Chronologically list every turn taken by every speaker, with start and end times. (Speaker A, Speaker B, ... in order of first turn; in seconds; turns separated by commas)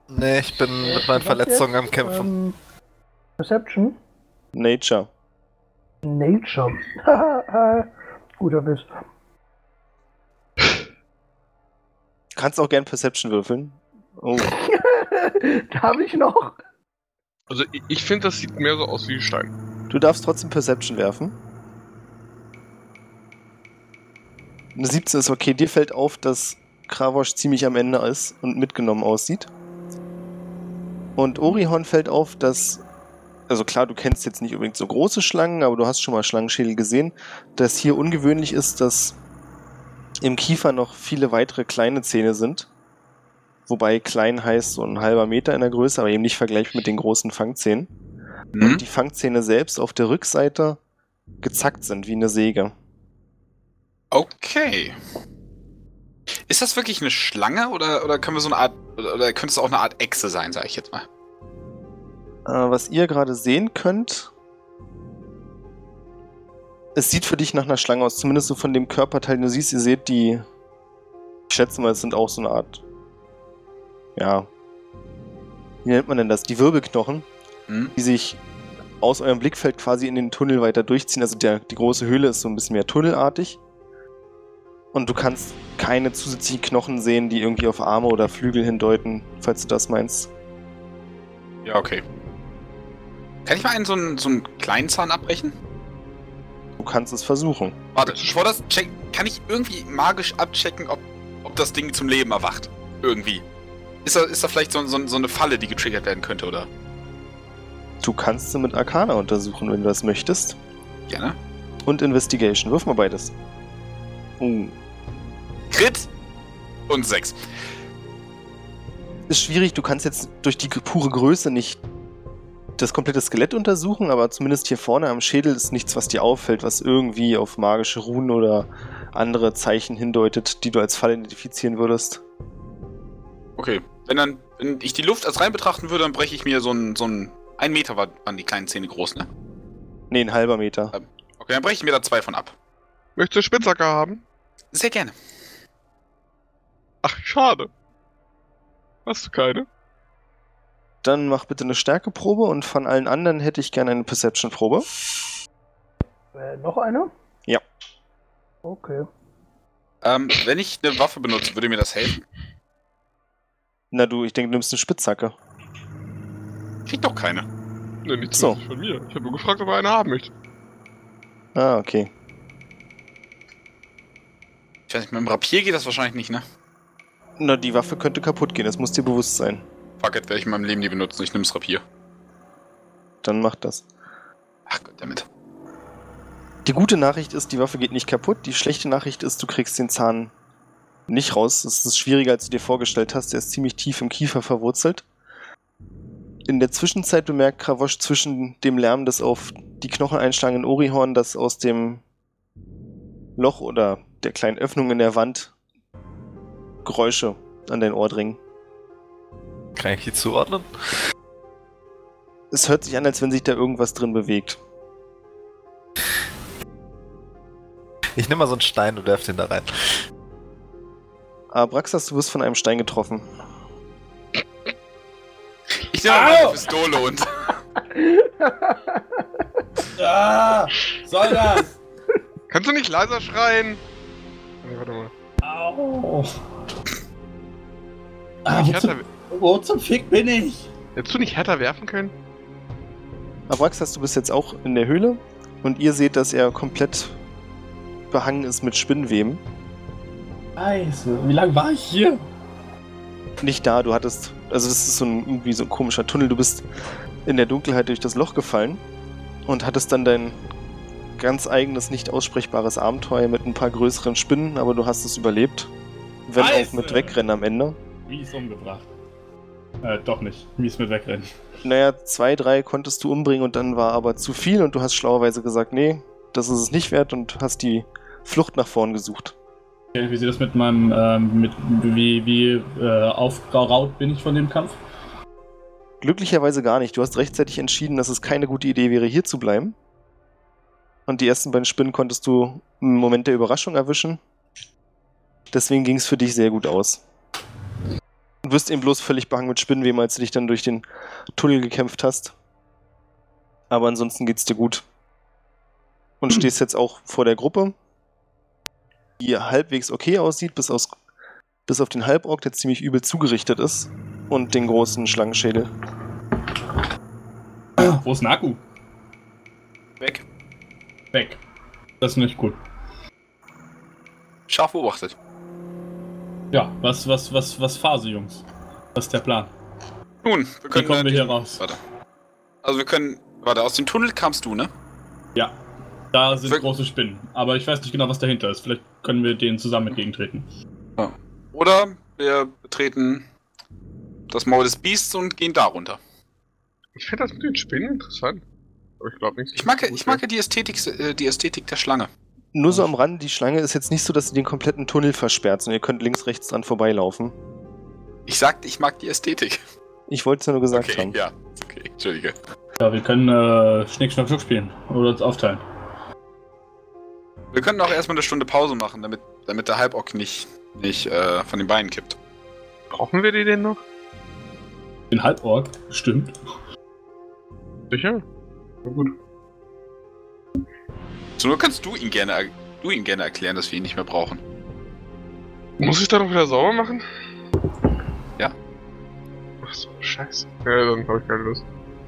Speaker A: 0.1-2.3, Speaker B: 0.8-2.6, Speaker B: 3.4-4.0, Speaker C: 4.5-5.1, Speaker B: 6.0-8.9, Speaker C: 12.3-14.5, Speaker B: 14.4-16.6, Speaker D: 17.5-19.5, Speaker C: 19.9-21.4, Speaker C: 24.8-29.5, Speaker C: 31.2-32.8, Speaker C: 33.5-39.2, Speaker C: 40.2-42.7, Speaker C: 43.7-47.9, Speaker E: 48.5-48.8, Speaker C: 48.6-50.8, Speaker C: 51.4-52.7, Speaker E: 54.1-55.0, Speaker E: 56.5-61.0, Speaker C: 62.5-64.3, Speaker C: 67.0-70.5, Speaker C: 71.5-72.8, Speaker C: 74.2-74.5, Speaker C: 75.8-77.3, Speaker E: 77.7-77.9, Speaker C: 78.0-78.4, Speaker C: 79.0-83.6, Speaker C: 84.9-90.3, Speaker E: 91.7-92.0, Speaker E: 93.5-95.5, Speaker C: 96.8-97.8, Speaker E: 98.0-103.4, Speaker D: 98.0-98.4, Speaker E: 104.0-106.7, Speaker C: 108.0-110.6, Speaker E: 111.1-111.4, Speaker C: 111.8-113.3, Speaker C: 114.4-114.8, Speaker E: 115.7-116.1, Speaker E: 116.9-117.4, Speaker C: 119.3-121.8, Speaker C: 122.8-132.2, Speaker E: 133.6-139.3, Speaker C: 140.1-140.9, Speaker E: 140.9-142.5, Speaker D: 143.2-144.2, Speaker E: 144.7-145.2, Speaker D: 147.0-147.7, Speaker D: 149.1-149.7, Speaker C: 151.0-154.9, Speaker B: 156.3-157.1, Speaker B: 158.6-159.1, Speaker E: 160.0-162.2, Speaker C: 163.9-165.3, Speaker E: 166.9-167.5, Speaker D: 168.1-170.3, Speaker C: 168.3-168.6, Speaker C: 171.6-172.1, Speaker E: 174.9-176.4, Speaker C: 177.4-179.6, Speaker E: 180.0-181.8, Speaker C: 183.2-183.9, Speaker E: 184.7-185.3, Speaker C: 186.7-190.3, Speaker C: 191.1-195.1, Speaker C: 196.5-202.0, Speaker C: 203.4-205.5, Speaker C: 206.8-208.4, Speaker A: 209.8-210.7, Speaker C: 212.5-214.6, Speaker A: 218.2-220.0, Speaker C: 221.5-223.3, Speaker E: 225.9-227.5, Speaker F: 226.1-226.7, Speaker B: 227.9-229.4, Speaker F: 230.0-231.7, Speaker D: 232.5-233.8, Speaker D: 234.6-235.1, Speaker F: 235.4-236.3, Speaker F: 238.5-240.7, Speaker D: 238.5-239.1, Speaker D: 241.0-242.1, Speaker C: 243.5-247.2, Speaker C: 248.1-249.4, Speaker F: 250.6-252.2, Speaker C: 253.4-256.6, Speaker C: 257.2-258.8, Speaker C: 259.5-260.4, Speaker C: 261.2-265.7, Speaker C: 266.3-267.8, Speaker F: 266.4-267.2, Speaker F: 268.1-268.9, Speaker F: 269.8-271.3, Speaker C: 271.6-279.3, Speaker F: 279.9-284.8, Speaker C: 286.0-289.8, Speaker C: 291.1-294.2, Speaker C: 295.5-297.0, Speaker C: 298.4-302.3, Speaker C: 303.7-304.9, Speaker C: 306.2-307.8, Speaker C: 309.2-310.9, Speaker C: 311.7-315.7, Speaker F: 317.8-318.6, Speaker F: 321.1-321.4, Speaker F: 322.0-322.6, Speaker E: 324.5-325.1, Speaker F: 326.5-328.4, Speaker F: 328.9-329.5, Speaker E: 330.2-331.8, Speaker F: 330.7-331.6, Speaker E: 332.6-334.7, Speaker F: 336.1-340.5, Speaker E: 341.0-343.3, Speaker E: 344.3-346.0, Speaker D: 347.0-348.4, Speaker D: 349.0-350.2, Speaker E: 349.6-352.1, Speaker C: 352.5-357.4, Speaker E: 358.3-359.6, Speaker C: 360.1-361.2, Speaker E: 360.7-362.4, Speaker F: 362.8-365.6, Speaker E: 367.5-372.2, Speaker D: 372.9-373.8, Speaker F: 375.1-376.4, Speaker D: 377.9-378.2, Speaker D: 378.9-379.1, Speaker E: 381.4-384.4, Speaker D: 385.8-387.0, Speaker D: 389.6-391.6